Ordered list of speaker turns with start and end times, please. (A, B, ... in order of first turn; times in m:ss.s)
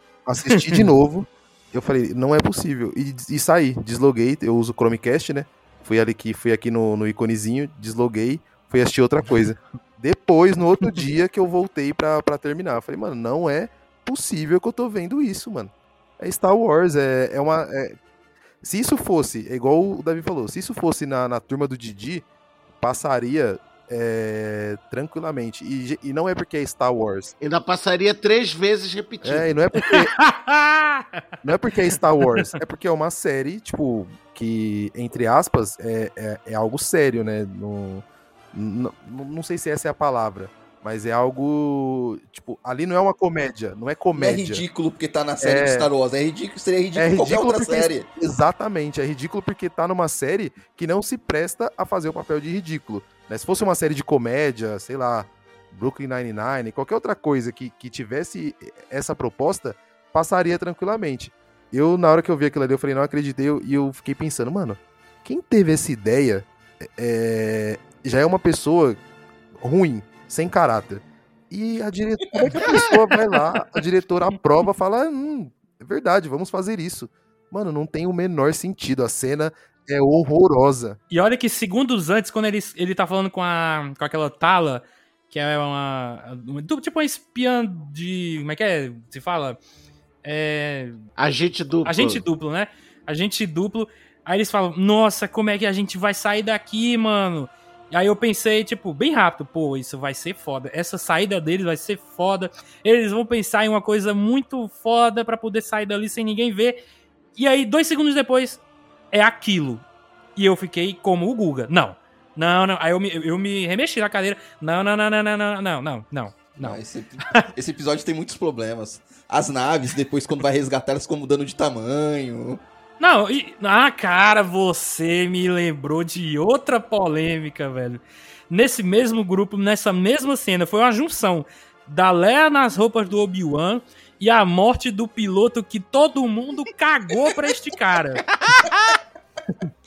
0:00.2-0:18.0 A
0:00.5-0:00.8 B
0:18.6-0:22.2 A
0:22.8-0:27.3 A
0:27.4-0:29.5 C
0:29.2-0:30.1 A
0:29.9-0:31.2 B
0:31.4-0:44.6 A
0:44.1-0:48.1 D
0:45.4-0:45.9 A
0:46.9-1:09.0 A
1:09.6-1:21.0 A
1:12.3-1:12.7 D
1:21.1-1:29.6 B
1:30.2-1:31.0 B
1:31.2-1:32.2 C
1:31.8-1:46.8 B
1:47.4-1:48.6 B
1:49.1-1:49.8 B
1:50.4-1:56.8 B
1:56.6-2:02.6 D
2:03.0-2:18.2 B